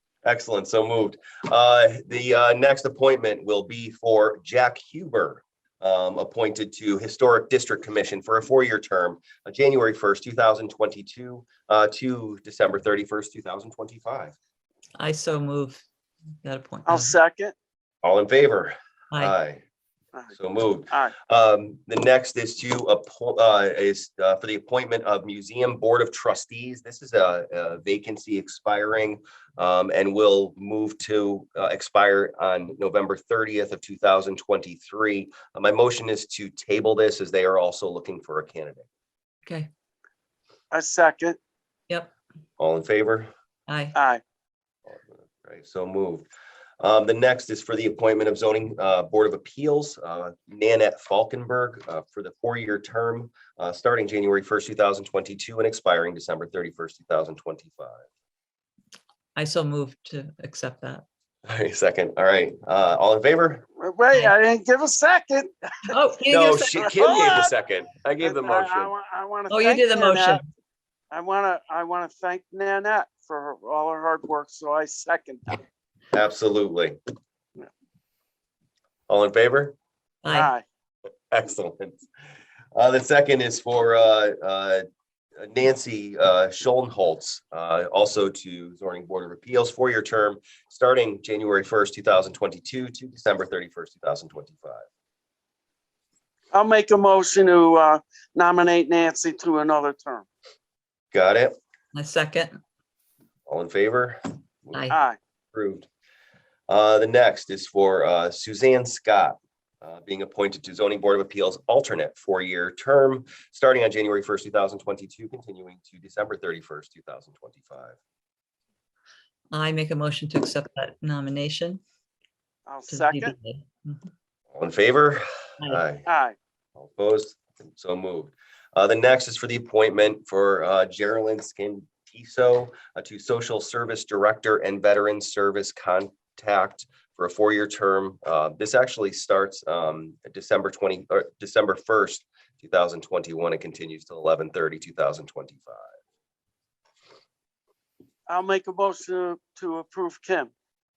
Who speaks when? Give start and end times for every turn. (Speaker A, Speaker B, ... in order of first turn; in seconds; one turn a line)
Speaker A: 0.2-14.3
Speaker B: 15.0-15.8
Speaker B: 16.4-17.1
Speaker C: 16.9-17.5
Speaker A: 18.0-19.6
Speaker A: 20.3-38.9
Speaker B: 39.4-39.7
Speaker C: 40.7-41.4
Speaker A: 42.6-43.3
Speaker B: 43.7-43.9
Speaker C: 43.9-44.2
Speaker A: 44.9-46.3
Speaker A: 46.8-58.0
Speaker B: 59.4-61.0
Speaker A: 61.5-63.6
Speaker C: 63.8-65.9
Speaker B: 65.9-66.9
Speaker A: 66.3-68.9
Speaker C: 66.8-67.5
Speaker C: 68.2-70.4
Speaker B: 69.5-70.4
Speaker C: 71.1-75.6
Speaker A: 76.1-77.0
Speaker A: 79.1-79.7
Speaker B: 80.2-80.5
Speaker C: 80.3-80.6
Speaker A: 81.3-82.0
Speaker A: 82.7-84.8
Speaker A: 85.4-94.8
Speaker C: 96.5-100.2
Speaker A: 101.1-101.5
Speaker B: 101.9-102.6
Speaker A: 103.5-104.9
Speaker C: 104.9-105.2
Speaker A: 105.5-105.9
Speaker A: 106.7-118.0
Speaker B: 119.5-121.8
Speaker C: 122.7-123.3
Speaker B: 122.9-124.1
Speaker A: 124.5-126.0
Speaker C: 126.0-126.3
Speaker A: 126.8-145.8
Speaker C: 148.3-150.5